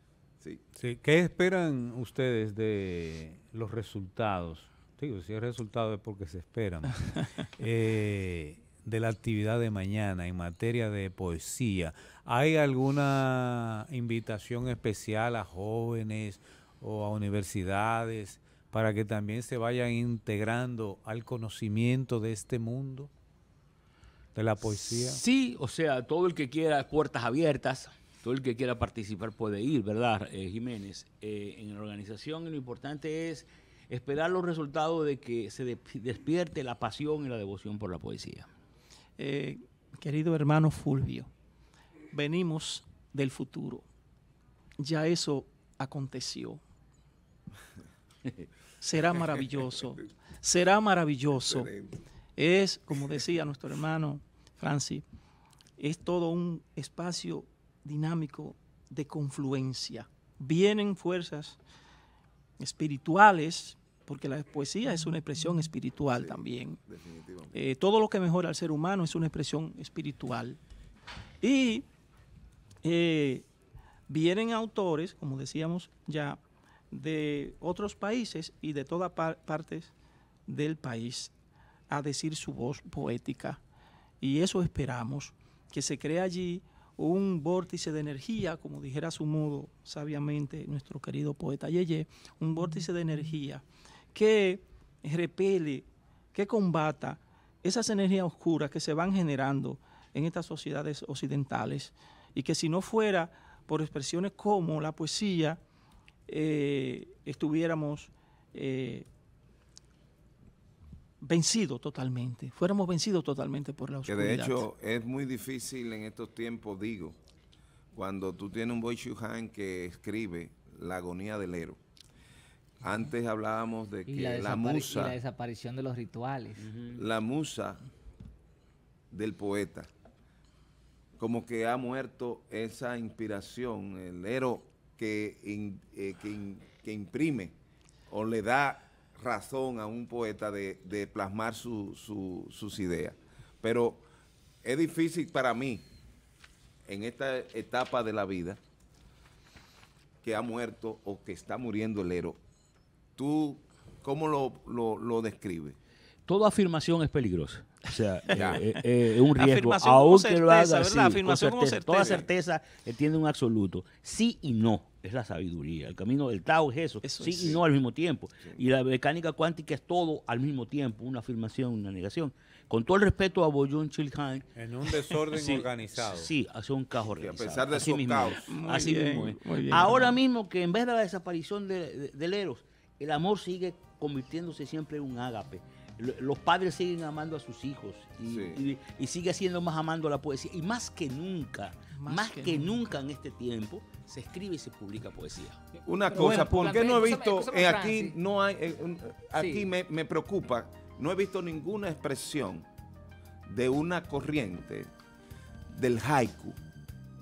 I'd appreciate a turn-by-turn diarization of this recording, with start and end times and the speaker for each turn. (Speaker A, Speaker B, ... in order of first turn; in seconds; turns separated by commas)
Speaker A: 0.8-23.1, Speaker A: 24.4-25.2, Speaker B: 24.6-38.5, Speaker C: 39.2-41.3, Speaker C: 42.1-43.9, Speaker C: 44.8-46.6, Speaker C: 48.8-51.7, Speaker D: 51.4-52.0, Speaker C: 52.4-55.0, Speaker C: 55.8-61.6, Speaker C: 62.6-66.8, Speaker D: 66.1-67.6, Speaker C: 67.5-70.6, Speaker C: 71.4-71.9, Speaker C: 72.8-73.5, Speaker C: 74.1-76.4, Speaker C: 76.9-79.9, Speaker C: 80.5-81.3, Speaker C: 81.9-83.6, Speaker C: 84.2-105.6, Speaker C: 106.3-109.1, Speaker C: 111.2-114.7, Speaker D: 114.1-117.2, Speaker D: 117.9-121.8, Speaker D: 122.8-125.2, Speaker E: 124.1-126.7, Speaker B: 126.6-127.0, Speaker D: 127.0-127.8, Speaker D: 129.1-129.9, Speaker D: 131.2-137.6, Speaker D: 138.1-144.0, Speaker D: 144.6-145.8, Speaker D: 146.9-148.6, Speaker D: 150.2-152.4, Speaker D: 153.2-155.8, Speaker B: 156.3-195.6, Speaker D: 158.3-158.6, Speaker C: 159.3-162.3, Speaker D: 162.0-162.3, Speaker C: 167.0-167.6, Speaker D: 167.4-167.6, Speaker A: 174.6-176.3, Speaker D: 177.2-178.5, Speaker C: 178.4-180.2, Speaker D: 188.2-188.6, Speaker C: 191.9-193.0, Speaker E: 195.7-198.2, Speaker D: 195.9-202.7, Speaker C: 196.2-196.6, Speaker E: 199.3-199.7, Speaker D: 203.5-204.9, Speaker D: 205.7-206.6